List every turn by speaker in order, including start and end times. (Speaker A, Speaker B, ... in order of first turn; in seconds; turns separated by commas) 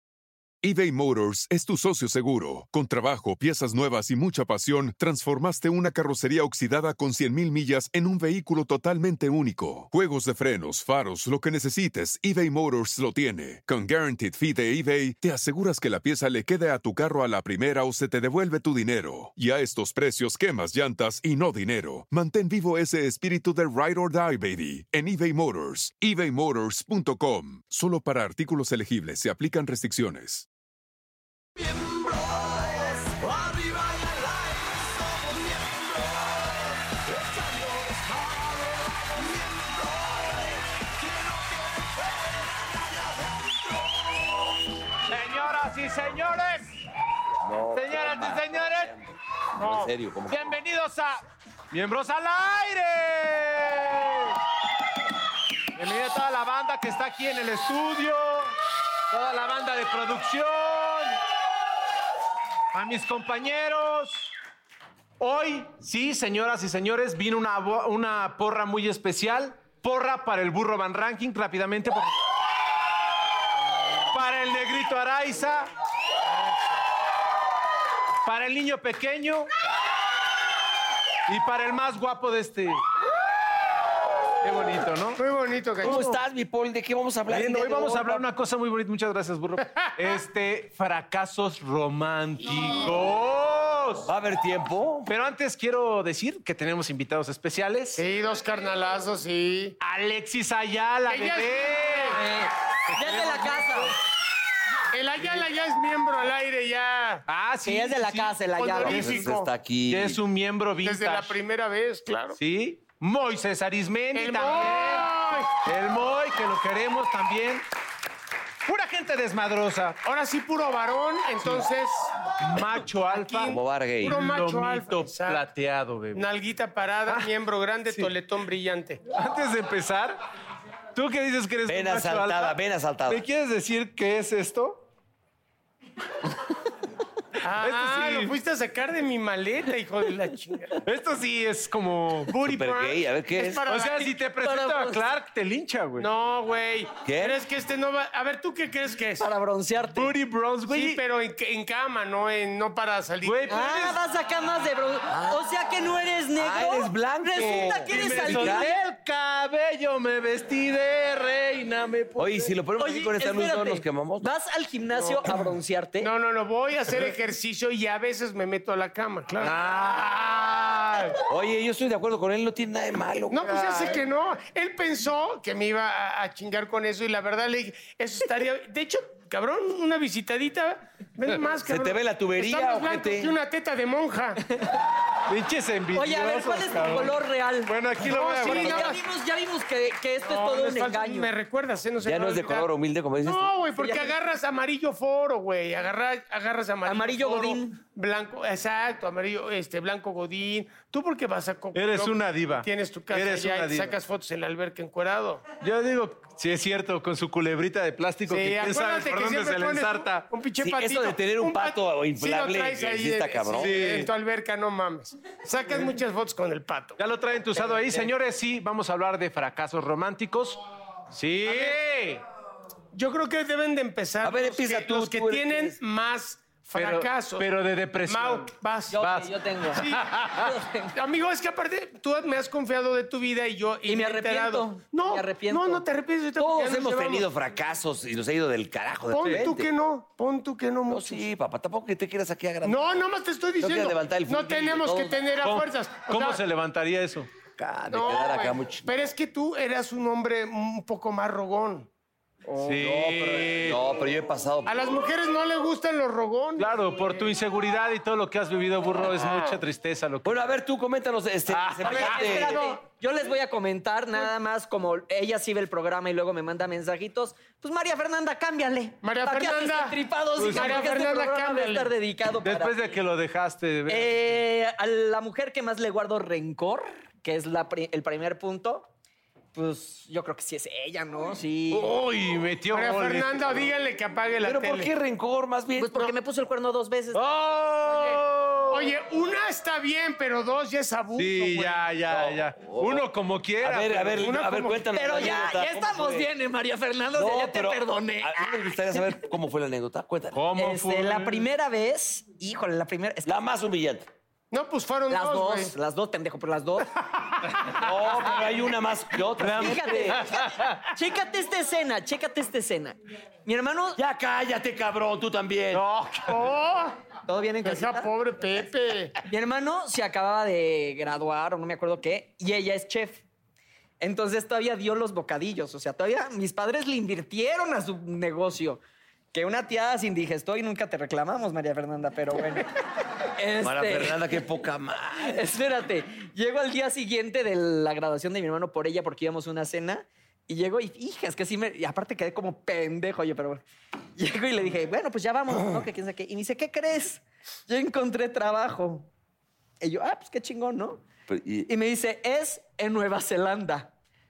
Speaker A: 0.6-30.5, Speaker B: 33.2-36.3, Speaker B: 37.7-38.4, Speaker B: 38.9-40.6, Speaker C: 41.1-41.7, Speaker C: 45.1-46.7, Speaker D: 47.3-50.6, Speaker C: 47.7-48.9, Speaker E: 49.6-49.9, Speaker C: 50.3-51.2, Speaker C: 51.7-54.4, Speaker C: 55.8-58.5, Speaker C: 59.1-61.2, Speaker C: 62.7-64.3, Speaker C: 65.2-72.2, Speaker C: 74.1-75.7, Speaker C: 78.2-79.5, Speaker C: 81.3-82.8, Speaker C: 84.4-85.2, Speaker E: 85.2-86.0, Speaker D: 85.8-88.2, Speaker C: 85.8-86.2, Speaker C: 87.3-94.1, Speaker D: 94.1-95.1, Speaker C: 95.1-98.0, Speaker E: 98.0-99.8, Speaker C: 99.8-102.3, Speaker E: 101.1-102.2, Speaker F: 102.1-103.9, Speaker C: 102.9-104.0, Speaker E: 104.9-107.2, Speaker C: 107.3-109.3, Speaker F: 107.6-109.2, Speaker E: 108.6-109.5, Speaker D: 108.8-110.2, Speaker C: 109.9-111.4, Speaker E: 110.8-112.4, Speaker C: 112.4-117.7, Speaker E: 114.1-115.5, Speaker C: 118.7-120.0, Speaker E: 120.0-122.1, Speaker C: 122.4-126.2, Speaker E: 123.1-125.4, Speaker D: 123.5-124.2, Speaker E: 126.2-129.0, Speaker C: 129.1-130.2, Speaker C: 130.9-132.6, Speaker D: 131.7-133.2, Speaker C: 133.1-134.9, Speaker E: 137.4-140.8, Speaker C: 137.6-138.3, Speaker C: 140.8-142.3, Speaker E: 142.3-144.1, Speaker D: 142.4-143.7, Speaker C: 143.7-146.1, Speaker F: 144.4-145.1, Speaker E: 146.0-149.2, Speaker D: 147.1-147.4, Speaker F: 149.2-150.1, Speaker C: 150.0-151.0, Speaker E: 150.7-153.9, Speaker C: 153.2-154.0, Speaker F: 153.5-158.8, Speaker D: 155.1-155.4, Speaker D: 156.4-158.7, Speaker C: 157.8-162.5, Speaker D: 162.2-164.3, Speaker F: 162.8-166.1, Speaker E: 165.0-165.3, Speaker E: 166.0-169.5, Speaker C: 169.4-171.1, Speaker D: 171.3-174.0, Speaker E: 173.3-184.4, Speaker D: 181.7-183.4, Speaker C: 185.3-188.9, Speaker F: 185.9-191.3, Speaker E: 188.0-189.0, Speaker E: 190.2-192.7, Speaker D: 192.0-193.5, Speaker E: 193.2-205.4, Speaker F: 193.8-194.1, Speaker F: 196.9-197.8, Speaker C: 201.7-203.9, Speaker C: 205.6-210.3, Speaker E: 208.3-217.0, Speaker D: 210.6-213.8, Speaker C: 213.6-214.1, Speaker C: 217.0-222.2, Speaker F: 217.6-218.1, Speaker E: 221.4-221.8, Speaker E: 222.9-227.5, Speaker D: 224.2-225.8, Speaker C: 226.7-230.5, Speaker E: 228.1-229.0, Speaker F: 228.9-230.9, Speaker E: 229.8-230.1, Speaker E: 230.9-237.3, Speaker F: 233.8-235.8, Speaker D: 236.4-239.7, Speaker E: 239.1-241.3, Speaker C: 239.2-239.5, Speaker D: 240.9-243.0, Speaker E: 242.7-246.4, Speaker D: 243.6-245.2, Speaker C: 245.4-247.3, Speaker D: 247.6-249.1, Speaker E: 247.9-251.9, Speaker C: 252.6-253.8, Speaker D: 252.8-255.1, Speaker E: 254.7-256.7, Speaker C: 256.6-260.4, Speaker E: 259.1-259.6, Speaker D: 260.2-262.6, Speaker C: 261.5-262.3, Speaker F: 261.9-273.0, Speaker E: 262.1-262.8, Speaker E: 269.0-271.9, Speaker C: 270.4-270.9, Speaker C: 272.4-274.3, Speaker F: 273.9-278.9, Speaker F: 279.6-281.9, Speaker C: 281.7-283.7, Speaker E: 282.7-284.9, Speaker D: 284.4-286.1, Speaker F: 285.8-287.2, Speaker C: 287.1-288.9, Speaker E: 287.9-291.8, Speaker C: 291.2-294.2, Speaker D: 292.1-293.1, Speaker D: 293.6-296.3, Speaker E: 294.2-294.9, Speaker F: 294.9-298.5, Speaker D: 297.1-300.4, Speaker C: 300.3-301.5, Speaker F: 300.6-303.3, Speaker D: 303.2-304.1, Speaker E: 304.5-305.8, Speaker F: 305.1-306.9, Speaker D: 307.6-310.4, Speaker C: 309.4-310.9, Speaker F: 309.5-314.0, Speaker D: 314.0-315.9, Speaker C: 315.7-316.5, Speaker E: 316.2-316.9, Speaker F: 317.3-318.1, Speaker E: 317.6-319.1, Speaker F: 319.3-323.2, Speaker F: 324.0-328.8, Speaker F: 329.3-332.7, Speaker F: 333.4-334.3, Speaker D: 333.6-335.4, Speaker F: 335.2-343.6, Speaker F: 344.2-349.1, Speaker D: 345.5-345.9, Speaker F: 349.8-351.0, Speaker D: 351.3-351.7, Speaker F: 351.7-353.9